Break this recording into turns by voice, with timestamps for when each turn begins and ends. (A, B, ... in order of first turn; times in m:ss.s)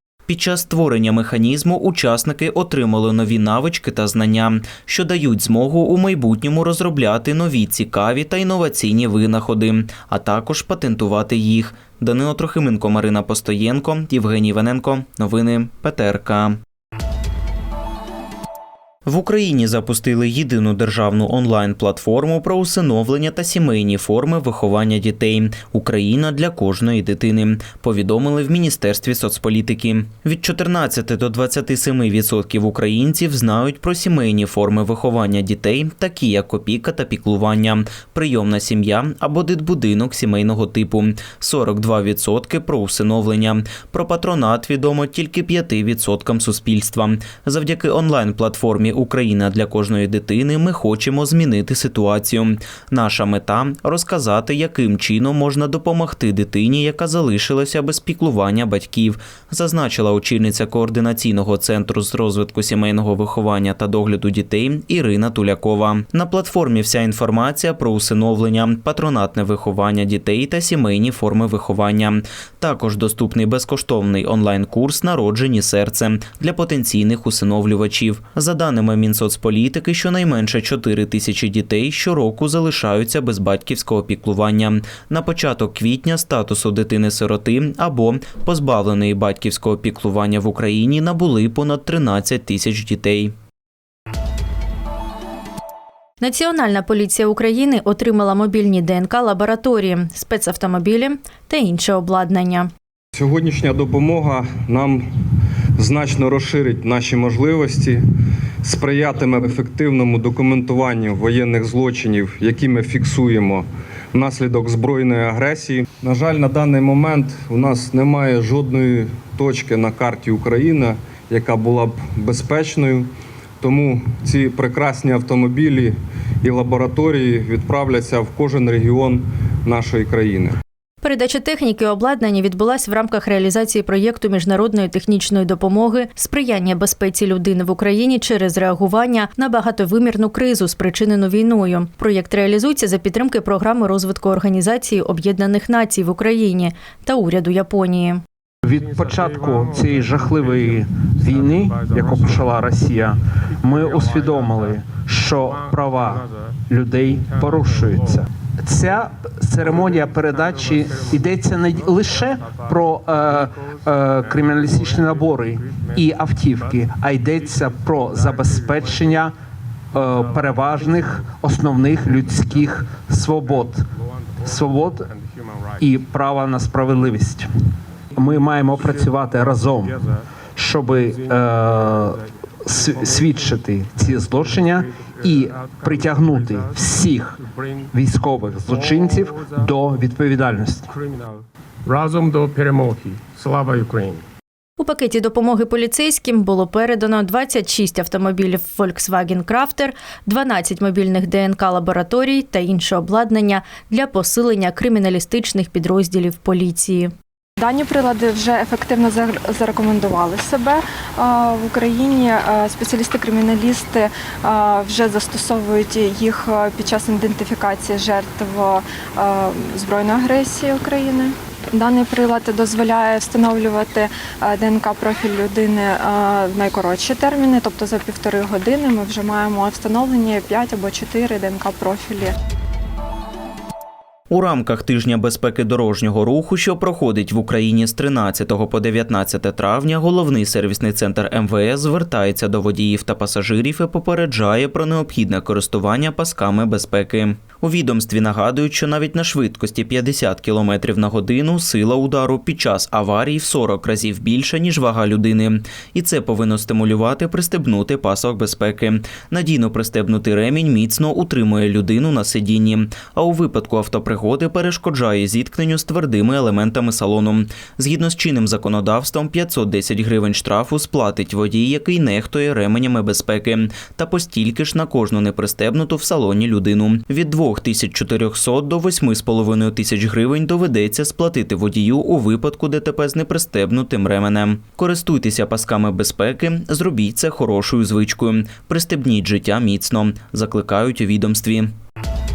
0:00.3-0:16.6 A
0:19.0-1:33.4 A
1:36.2-1:42.7 B
1:43.2-1:45.0 C
1:45.8-1:48.0 C
1:48.6-2:03.1 C
2:03.6-2:10.6 C
2:11.0-2:28.2 B
2:28.6-2:49.3 D
2:28.8-2:34.8 E
2:35.5-2:36.5 E
2:37.1-2:38.2 E
2:39.6-2:49.2 E
2:49.9-2:55.1 D
2:50.0-2:52.7 E
2:53.4-2:55.9 E
2:55.8-2:57.5 D
2:58.2-3:00.0 D
2:58.3-3:00.2 E
3:00.6-3:07.4 D
3:00.9-3:02.2 E
3:02.7-3:07.9 E
3:07.9-3:11.0 D
3:08.7-3:09.7 E
3:10.9-3:14.2 E
3:14.8-3:27.1 B
3:27.6-3:52.4 F
3:54.3-4:51.7 A